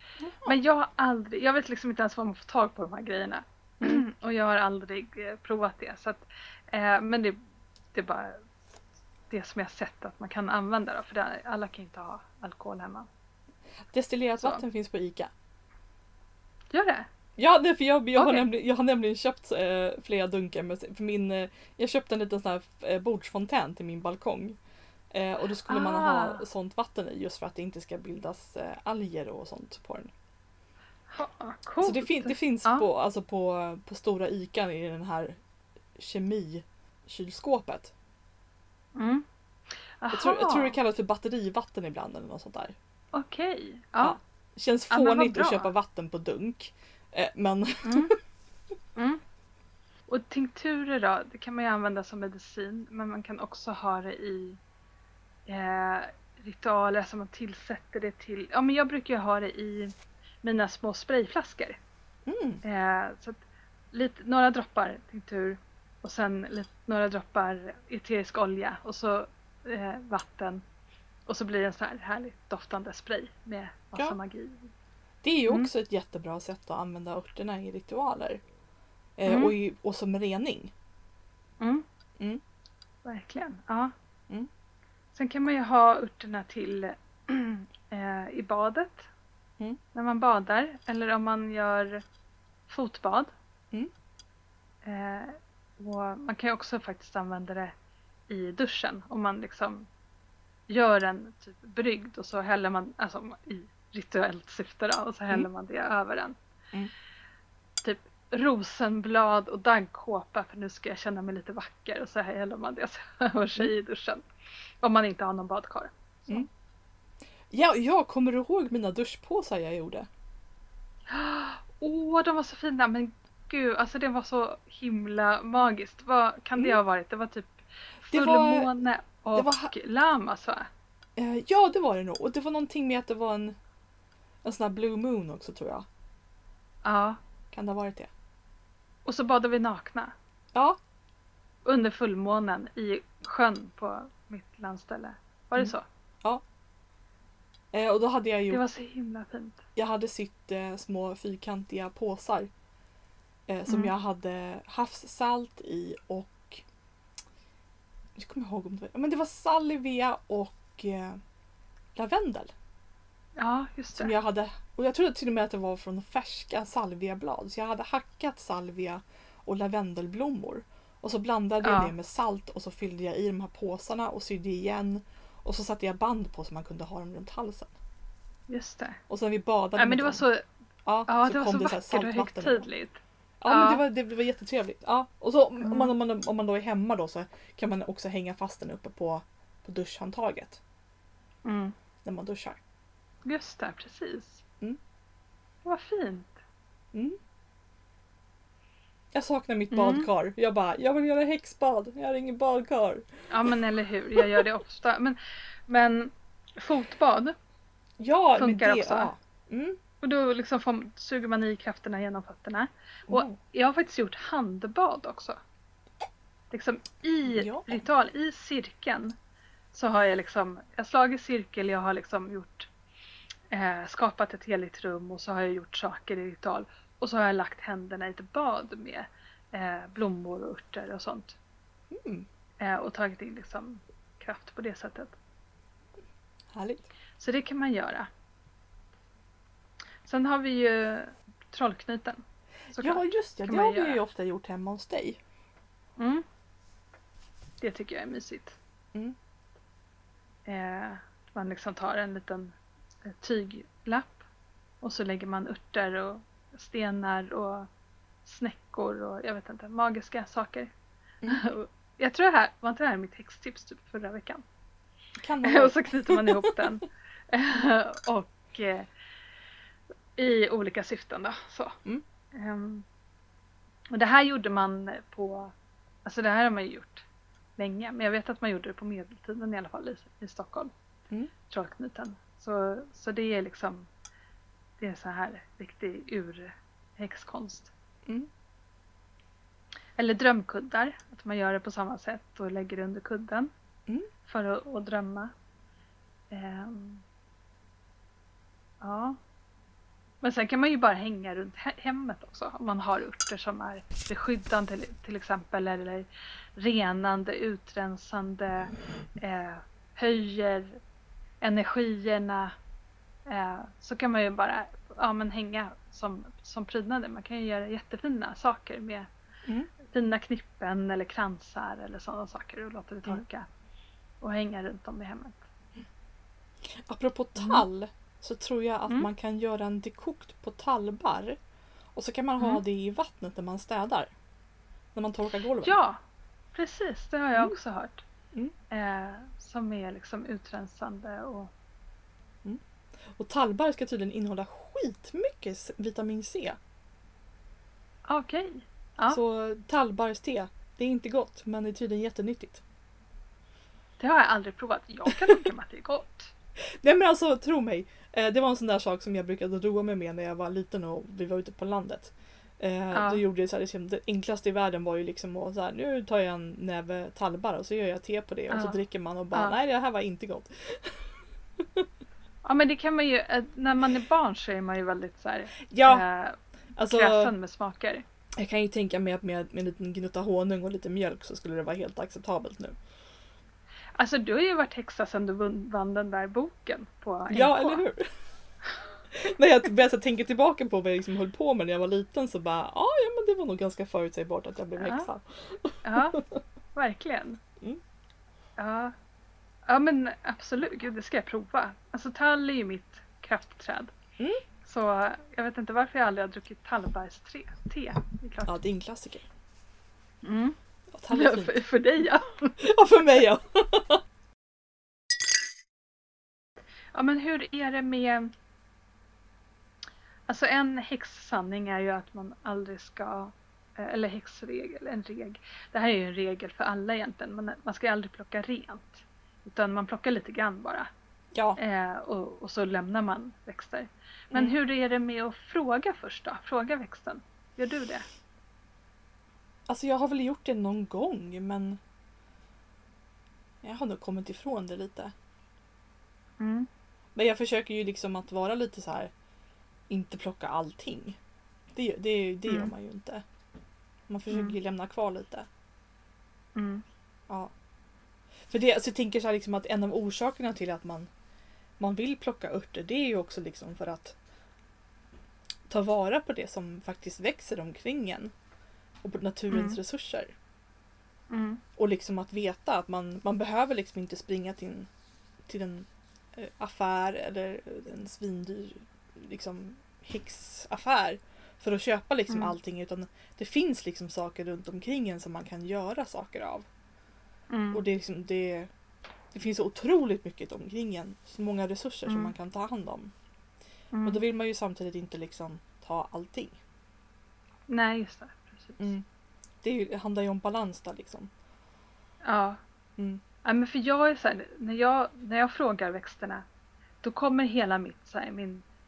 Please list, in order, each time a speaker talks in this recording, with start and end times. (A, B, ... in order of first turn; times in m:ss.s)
0:00.2-0:00.6 A
0:00.4-0:07.4 B
0:07.9-0:08.4 B
0:09.3-0:13.1 B
0:13.9-0:15.3 A
0:16.7-0:17.1 B
0:17.4-0:24.6 A
0:18.2-0:18.4 B
0:25.1-0:30.1 A
0:25.7-0:26.4 B
0:31.1-0:32.8 B
0:31.8-0:35.4 A
0:36.0-0:37.9 A
0:38.9-0:39.2 B
0:40.0-0:40.8 B
0:40.1-0:42.7 A
0:43.1-0:44.2 B
0:44.0-0:48.1 A
0:44.9-0:45.7 B
0:47.8-0:48.1 B
0:49.0-0:49.2 B
0:50.1-0:54.6 B
0:55.5-1:01.8 B
1:02.2-1:02.6 A
1:02.6-1:03.4 B
1:03.9-1:10.6 B
1:11.3-1:14.7 B
1:15.2-1:18.4 A
1:19.2-1:20.7 A
1:19.3-1:19.5 B
1:23.0-1:23.9 B
1:25.1-1:29.1 B
1:29.9-1:32.0 B
1:32.7-1:33.3 B
1:34.8-1:37.7 B
1:38.3-1:39.9 B
1:40.7-1:46.4 B
1:47.8-1:54.3 B
1:54.8-1:56.5 B
1:57.5-2:00.1 A
2:01.1-2:10.7 B
2:08.1-2:08.7 A
2:09.3-2:09.7 A
2:11.2-2:13.6 A
2:14.4-2:15.8 A
2:16.8-2:17.2 B
2:17.5-2:18.1 A
2:19.0-2:20.1 B
2:21.6-2:25.8 B
2:25.6-2:26.4 A
2:27.7-2:28.6 A
2:28.5-2:29.6 B
2:29.8-2:32.5 A
2:33.5-2:36.6 A
2:33.7-2:33.9 B
2:38.2-2:41.2 A
2:41.9-2:42.5 A
2:43.4-2:44.1 B
2:44.0-2:57.7 A
2:51.6-2:51.9 B
2:58.5-2:59.0 B
2:59.1-3:00.2 A
2:59.8-3:00.4 B
3:00.8-3:02.6 A
3:01.1-3:03.8 B
3:03.4-3:10.6 A
3:05.6-3:05.9 B
3:11.4-3:11.7 B
3:12.0-3:12.6 A
3:13.2-3:14.4 B
3:15.6-3:16.3 B
3:16.9-3:17.2 A
3:19.1-3:23.5 A
3:19.7-3:20.1 B
3:23.3-3:27.4 B
3:24.2-3:24.4 A
3:28.0-3:29.8 A
3:28.4-3:29.1 B
3:30.0-3:35.4 B
3:33.1-3:33.3 A
3:36.5-3:39.1 B
3:37.3-3:37.8 A
3:39.7-3:42.7 B
3:43.5-3:51.4 B
3:51.9-3:52.3 A
3:52.6-3:55.2 B
3:56.5-3:56.9 A
3:57.2-3:58.1 B
4:00.0-4:02.2 B
4:02.7-4:04.0 B
4:02.7-4:05.2 A
4:06.0-4:06.2 B
4:07.6-4:08.6 B
4:10.5-4:12.5 B
4:13.0-4:14.2 B
4:14.8-4:17.7 B
4:18.2-4:20.7 B
4:21.3-4:24.4 B
4:25.2-4:26.6 A
4:25.4-4:28.9 B
4:30.2-4:31.8 B
4:32.3-4:32.8 B
4:33.9-4:35.5 B
4:36.0-4:37.0 B
4:37.6-4:40.7 B
4:41.5-4:43.9 B
4:44.8-4:47.7 B
4:50.0-4:53.5 B
4:54.2-4:55.3 B
4:56.3-4:57.0 B
4:58.8-4:59.2 B
5:00.2-5:10.8 B
5:11.4-5:12.5 B
5:13.3-5:19.1 B
5:19.4-5:19.7 A
5:19.8-5:23.5 B
5:24.2-5:25.4 B
5:26.6-5:31.4 A
5:27.4-5:27.6 B
5:31.9-5:34.1 A
5:34.9-5:35.8 A
5:35.6-5:36.0 B
5:36.5-5:38.0 B
5:38.7-5:41.5 B
5:42.4-5:46.6 A
5:48.1-5:49.2 B
5:49.1-5:52.6 A
5:54.0-5:56.3 B
5:55.1-5:55.5 A
5:56.6-6:11.9 A
6:02.9-6:03.2 B
6:08.5-6:08.8 B
6:12.4-6:16.4 B
6:15.7-6:16.0 A
6:16.8-6:17.3 A
6:16.9-6:18.0 B
6:18.4-6:22.8 A
6:24.0-6:27.8 B
6:27.3-6:28.1 A
6:29.1-6:36.4 A
6:34.8-6:35.1 B
6:35.8-6:36.2 B
6:36.7-6:37.4 B
6:38.6-6:38.9 B
6:39.7-6:43.9 B
6:44.6-6:48.6 B
6:48.4-6:49.3 A
6:50.2-6:50.6 B
6:50.9-6:51.6 A
6:51.1-6:52.6 B
6:52.6-6:54.0 A
6:56.9-6:58.3 B
7:00.3-7:10.9 B
7:11.3-7:11.6 A
7:11.6-7:18.0 B
7:19.7-7:21.8 A
7:23.6-7:25.1 A
7:26.4-7:26.7 B
7:27.1-7:29.1 A
7:29.9-7:31.2 A
7:31.7-7:33.2 A
7:32.5-7:32.7 B
7:34.1-7:35.5 A
7:34.3-7:34.5 B
7:36.6-7:36.8 B
7:38.4-7:41.1 A
7:41.8-7:44.2 A
7:45.7-7:48.3 A
7:49.0-7:50.3 A
7:49.5-7:49.8 B
7:51.3-7:51.6 B
7:51.8-7:54.9 A
7:55.4-8:06.7 A
8:02.3-8:02.5 B
8:07.5-8:07.8 B
8:07.7-8:08.7 A
8:09.3-8:13.1 A
8:12.1-8:12.3 B
8:13.9-8:14.2 B
8:14.0-8:16.6 A
8:17.7-8:18.9 B
8:18.8-8:19.0 A
8:19.6-8:21.3 A
8:22.2-8:22.6 B
8:23.0-8:23.2 A
8:23.4-8:26.4 B
8:27.0-8:28.6 B